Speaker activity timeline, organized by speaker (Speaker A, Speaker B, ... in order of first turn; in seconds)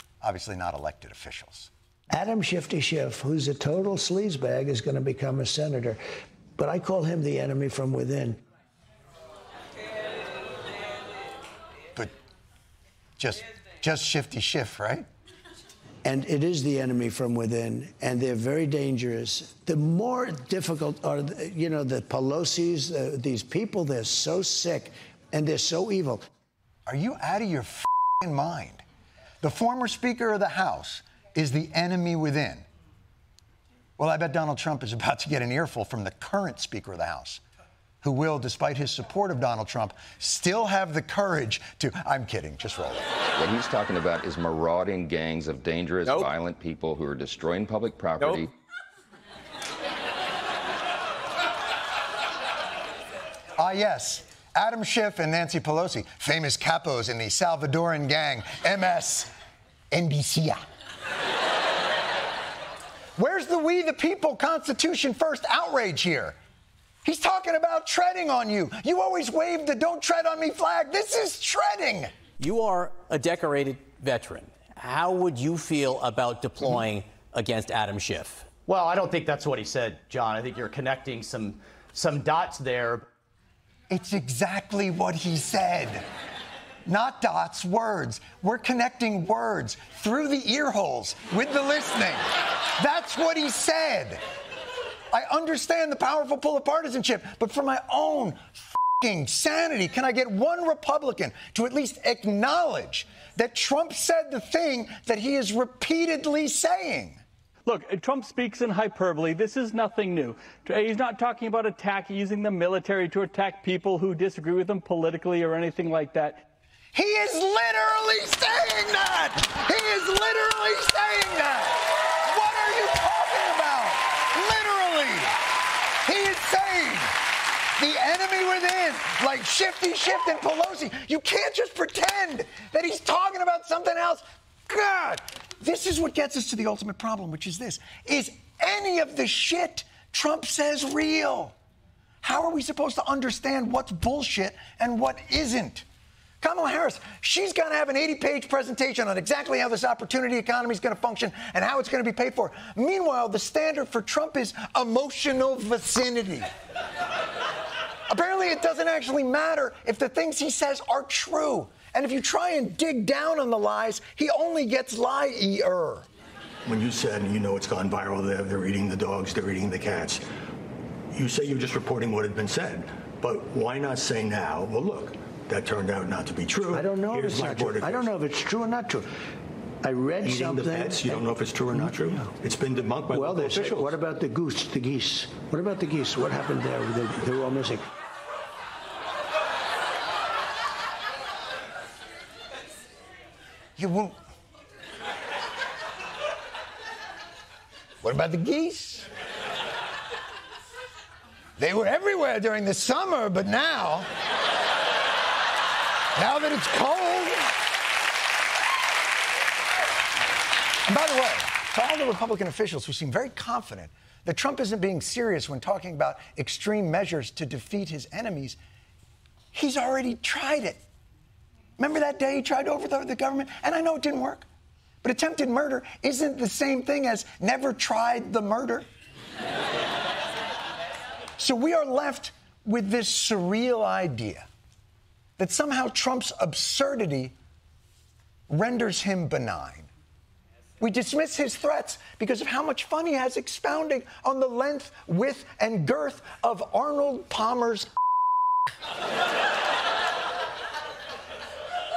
Speaker A: 0.2-1.7, 13.2-15.1, 26.9-28.8, 29.4-32.6, 34.0-37.4, 38.0-43.1, 53.6-59.3, 59.9-60.6, 63.2-66.4, 67.0-72.1, 83.9-86.0, 86.8-92.2, 92.8-94.2, 95.1-107.2, 116.9-125.3, 126.0-127.1, 127.8-141.5, 142.2-145.8, 146.4-156.5, 158.1-166.1, 193.8-194.2, 198.0-199.1, 201.6-204.1, 206.2-207.5, 210.9-218.6, 219.5-220.8, 221.8-224.5, 225.0-228.9, 231.4-234.4, 235.4-237.3, 238.5-239.9, 240.8-247.9
Speaker B: 2.1-6.0, 6.6-8.4, 16.0-26.2, 176.6-179.1, 179.8-182.3, 183.1-187.8
Speaker C: 43.4-48.5
Speaker D: 72.4-78.5
Speaker E: 78.7-83.0
Speaker F: 107.7-116.4
Speaker G: 166.7-170.2, 171.1-178.1, 180.2-183.9